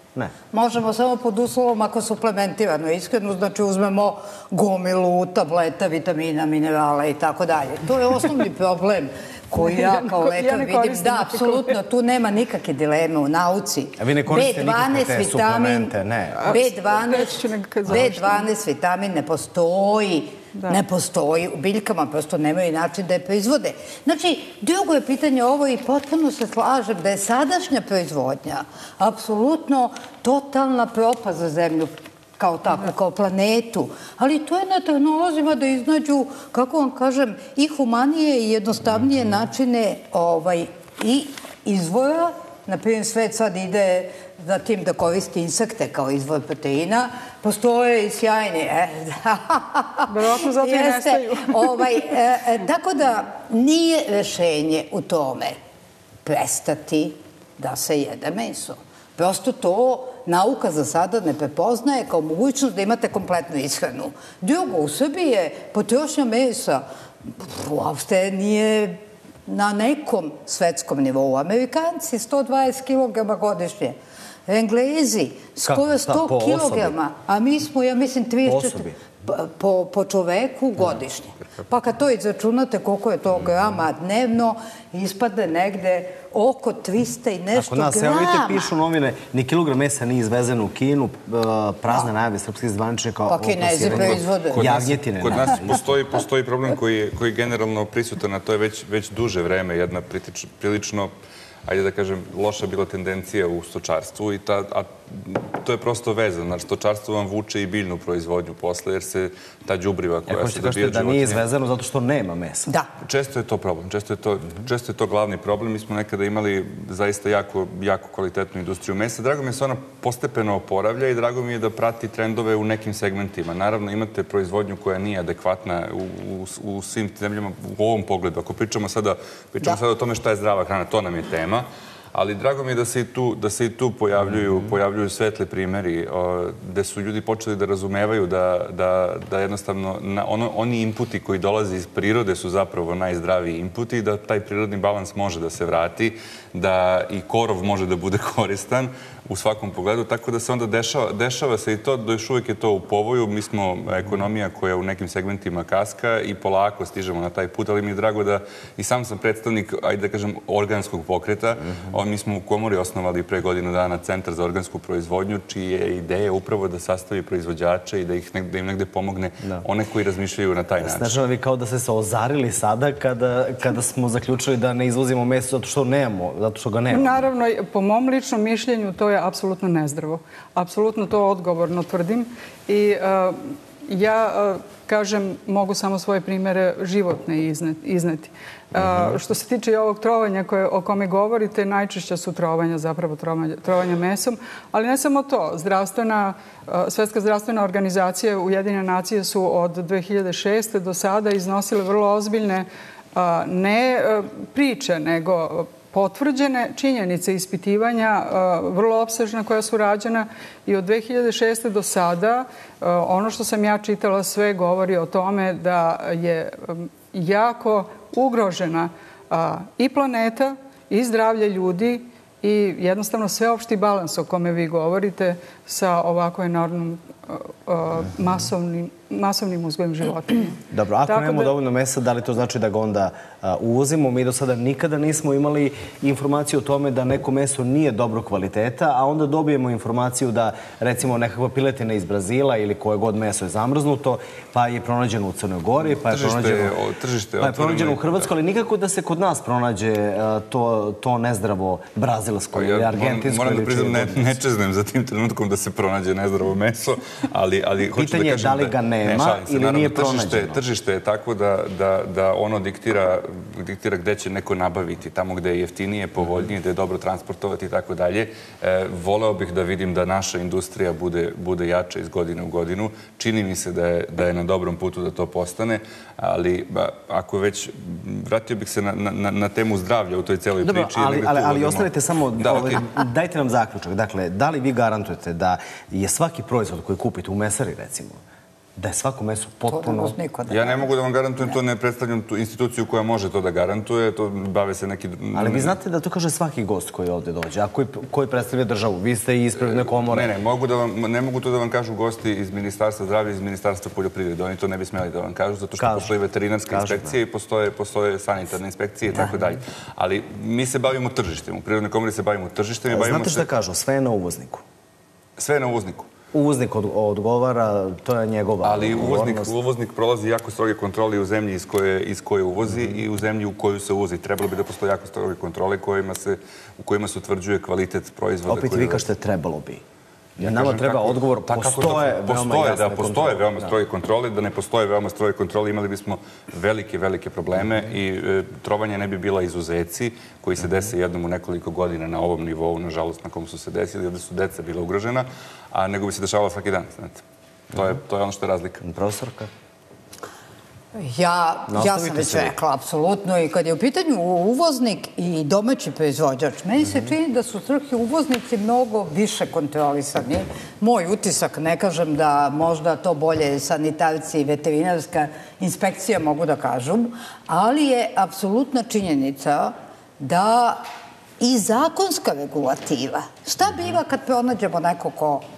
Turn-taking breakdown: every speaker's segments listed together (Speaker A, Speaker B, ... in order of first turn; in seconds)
Speaker A: 0.5-55.5, 56.2-88.7, 93.3-94.9, 289.7-290.9, 350.9-370.8, 371.4-375.4
Speaker B: 9.6-11.8, 16.4-18.5, 50.1-52.0, 176.9-230.5, 231.1-231.5
Speaker C: 14.0-16.6, 75.6-76.9, 78.4-79.0, 87.5-95.8, 110.3-112.7, 170.8-177.3, 230.7-246.7, 247.4-254.3, 257.9-260.6, 280.6-288.2, 288.8-290.2, 295.3-300.3, 305.8-306.1, 306.7-307.1, 312.9-314.6, 316.3-319.5, 328.5-329.8, 330.4-333.7, 348.8-349.5, 351.7-352.5
Speaker D: 93.8-101.1, 101.7-111.4, 113.0-171.1, 246.0-248.3, 252.5-282.8, 290.5-295.7, 299.6-313.5, 315.4-316.1, 318.6-329.1, 330.4-348.8